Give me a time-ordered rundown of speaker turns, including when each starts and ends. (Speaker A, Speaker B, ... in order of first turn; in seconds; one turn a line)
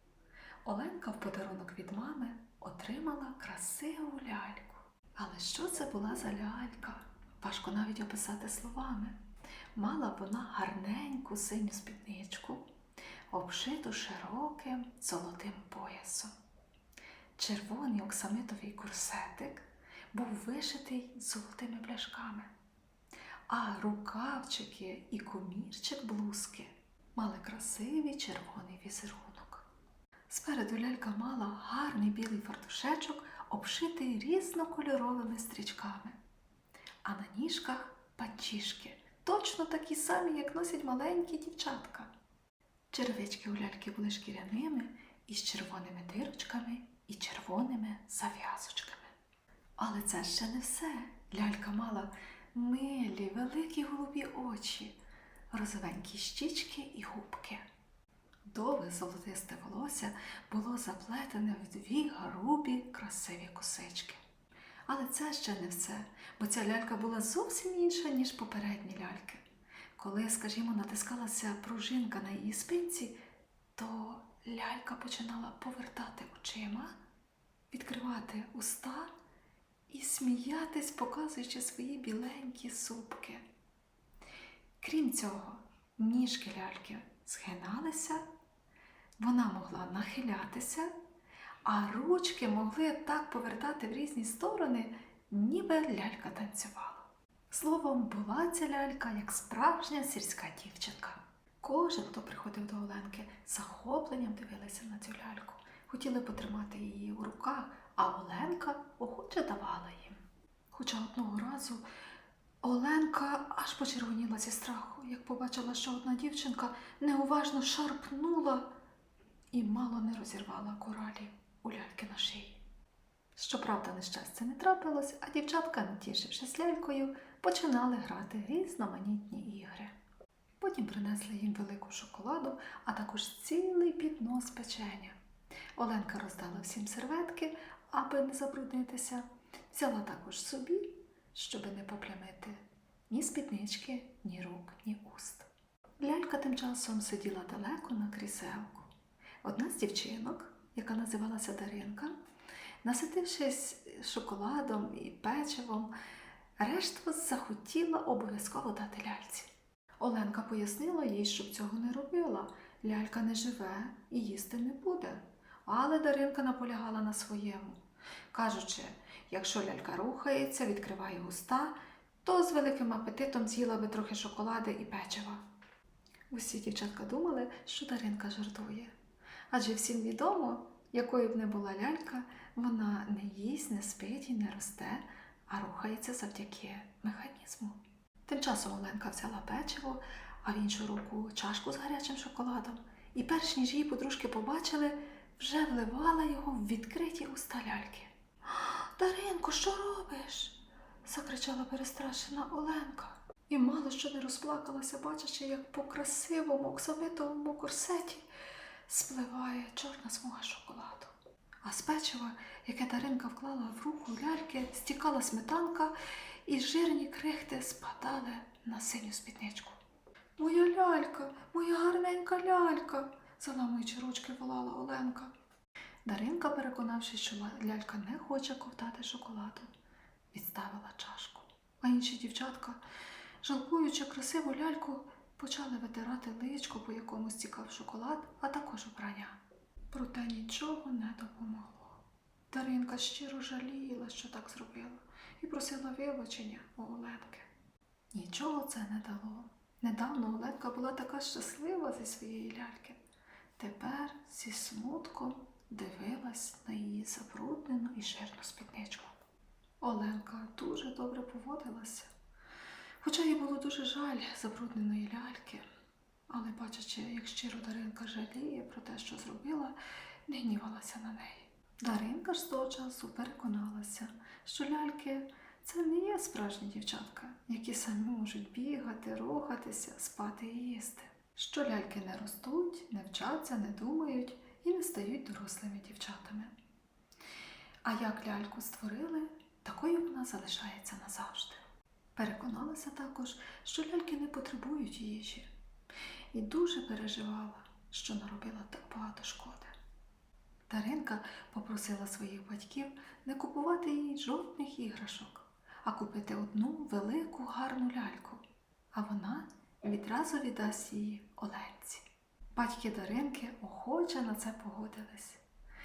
Speaker A: 0.7-9.2
Speaker A: 9.8-12.7
Speaker A: 13.3-16.3
Speaker A: 17.4-22.5
Speaker A: 23.5-29.7
Speaker A: 30.3-36.2
Speaker A: 37.0-42.1
Speaker A: 42.9-49.1
Speaker A: 49.8-55.0
Speaker A: 55.5-57.6
Speaker A: 58.5-64.2
Speaker A: 64.9-69.4
Speaker A: 70.0-73.2
Speaker A: 73.8-76.9
Speaker A: 77.7-79.1
Speaker A: 79.9-83.5
Speaker A: 84.8-88.2
Speaker A: 89.2-90.9
Speaker A: 91.7-110.2
Speaker A: 110.7-111.9
Speaker A: 112.6-118.7
Speaker A: 119.5-122.6
Speaker A: 123.3-129.9
Speaker A: 130.6-135.2
Speaker A: 135.8-145.5
Speaker A: 146.0-148.9
Speaker A: 149.4-152.2
Speaker A: 152.8-155.9
Speaker A: 156.6-167.8
Speaker A: 168.3-175.4
Speaker A: 176.3-178.9
Speaker A: 179.5-208.3
Speaker A: 208.9-211.1
Speaker A: 211.6-219.8
Speaker A: 220.4-225.3
Speaker A: 226.1-229.7
Speaker A: 230.3-232.8
Speaker A: 233.4-239.4
Speaker A: 239.9-247.5
Speaker A: 248.1-253.0
Speaker A: 253.6-259.1
Speaker A: 259.8-262.1
Speaker A: 263.0-265.6
Speaker A: 266.3-269.8
Speaker A: 270.3-286.5
Speaker A: 287.9-291.6
Speaker A: 292.2-295.5
Speaker A: 296.3-299.7
Speaker A: 300.7-315.4